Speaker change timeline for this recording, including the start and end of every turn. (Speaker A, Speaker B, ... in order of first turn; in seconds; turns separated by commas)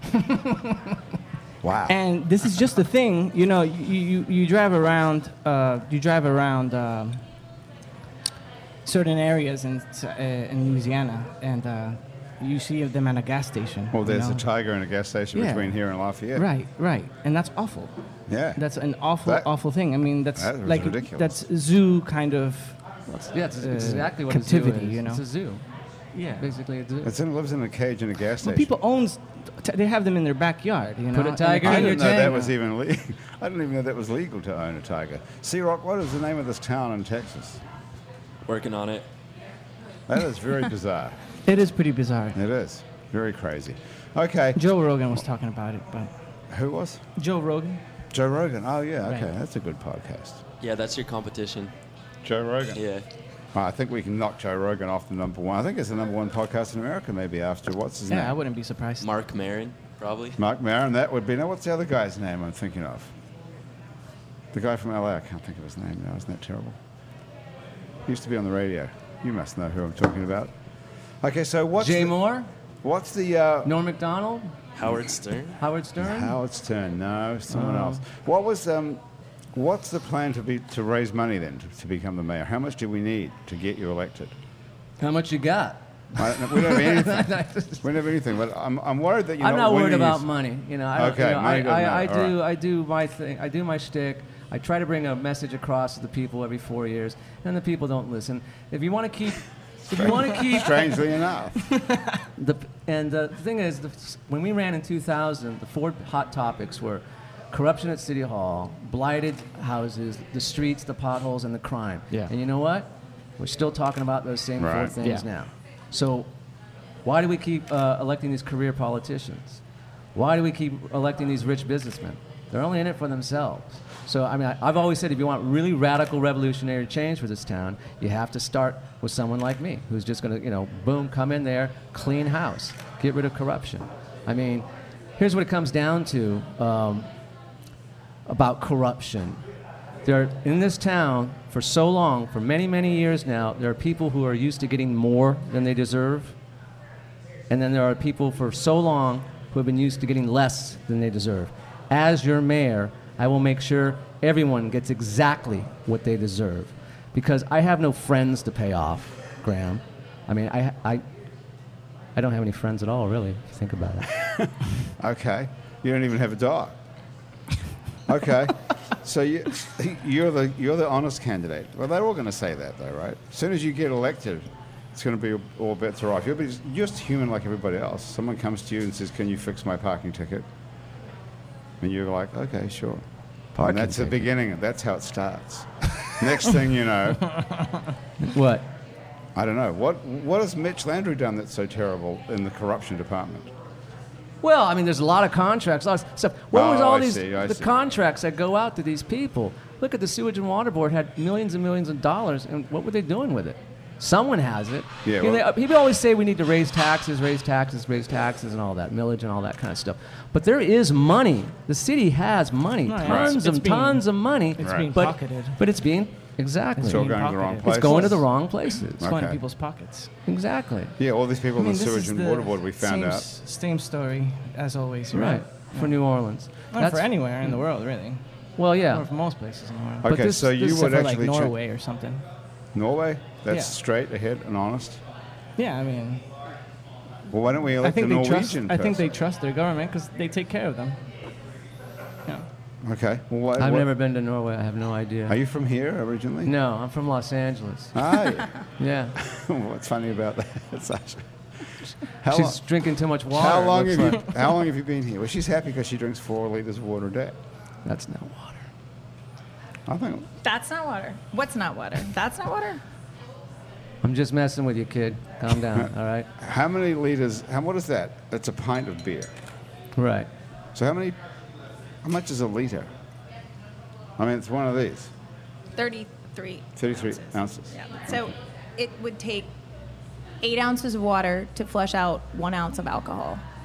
Speaker A: 1.6-1.9, Speaker B: 1.9-7.2, Speaker B: 8.8-14.4, Speaker A: 13.9-16.4, Speaker B: 15.3-15.7, Speaker B: 16.3-17.9, Speaker A: 18.3-18.6, Speaker B: 18.6-22.8, Speaker A: 20.4-21.4, Speaker C: 23.1-25.6, Speaker B: 23.6-25.2, Speaker B: 26.1-26.5, Speaker C: 26.4-27.1, Speaker A: 27.0-28.7, Speaker B: 28.4-32.3, Speaker C: 31.1-32.5, Speaker A: 31.6-37.6, Speaker D: 38.5-39.0, Speaker A: 40.1-41.2, Speaker B: 41.5-42.4, Speaker A: 42.3-44.6, Speaker B: 44.5-46.1, Speaker A: 46.5-47.0, Speaker B: 47.2-47.8, Speaker A: 48.1-50.4, Speaker B: 49.0-49.3, Speaker D: 50.6-51.7, Speaker A: 52.2-52.8, Speaker D: 52.7-53.0, Speaker A: 53.5-58.4, Speaker B: 58.1-59.1, Speaker D: 59.0-60.4, Speaker A: 60.4-63.1, Speaker A: 64.5-66.8, Speaker A: 68.1-70.5, Speaker A: 71.2-72.2, Speaker C: 71.8-72.5, Speaker A: 72.8-73.7, Speaker C: 73.6-74.5, Speaker D: 74.8-75.6, Speaker C: 75.6-76.3, Speaker A: 76.0-79.0, Speaker C: 77.5-78.0, Speaker A: 79.5-84.3, Speaker C: 85.0-87.8, Speaker A: 86.2-90.2, Speaker C: 89.4-101.0, Speaker A: 90.9-92.3, Speaker A: 99.9-101.6, Speaker C: 102.4-112.9, Speaker C: 113.4-116.3, Speaker A: 114.6-115.0, Speaker C: 117.0-119.6, Speaker C: 120.1-134.7, Speaker C: 135.2-137.1, Speaker C: 138.2-139.4, Speaker C: 140.0-146.3, Speaker C: 147.5-161.0, Speaker C: 162.2-164.2, Speaker A: 165.0-166.8, Speaker A: 168.1-180.4, Speaker A: 181.8-183.0, Speaker C: 183.6-184.3, Speaker A: 183.6-187.2, Speaker C: 188.2-188.7, Speaker A: 189.3-193.5, Speaker C: 194.4-217.1, Speaker A: 196.5-197.7, Speaker A: 205.0-205.4, Speaker B: 212.8-215.6, Speaker A: 213.0-213.4, Speaker A: 214.6-214.9, Speaker B: 216.8-218.2, Speaker A: 216.9-218.2, Speaker C: 217.6-219.0, Speaker B: 219.0-220.1, Speaker A: 219.0-219.4, Speaker C: 220.2-220.9, Speaker A: 221.0-223.2, Speaker B: 221.6-225.9, Speaker C: 225.1-227.1, Speaker B: 226.7-228.2, Speaker C: 228.6-229.1, Speaker B: 228.9-232.2, Speaker A: 230.0-231.5, Speaker C: 230.1-230.4, Speaker A: 232.7-235.0, Speaker B: 235.6-236.2, Speaker A: 237.3-239.1, Speaker B: 237.8-241.0, Speaker A: 242.8-243.9, Speaker C: 243.6-245.4, Speaker A: 245.3-246.5, Speaker C: 246.4-248.2, Speaker A: 247.9-248.5, Speaker C: 248.8-249.2, Speaker A: 249.2-251.7, Speaker A: 252.2-252.6, Speaker C: 252.3-254.3, Speaker A: 253.3-257.4, Speaker C: 257.8-258.6, Speaker A: 259.9-260.3, Speaker E: 260.4-262.8, Speaker C: 264.0-266.3, Speaker A: 266.4-269.3, Speaker C: 269.9-270.3, Speaker A: 270.7-271.1, Speaker A: 272.0-272.9, Speaker A: 274.2-275.1, Speaker E: 275.8-279.5, Speaker A: 276.8-278.2, Speaker E: 280.4-283.4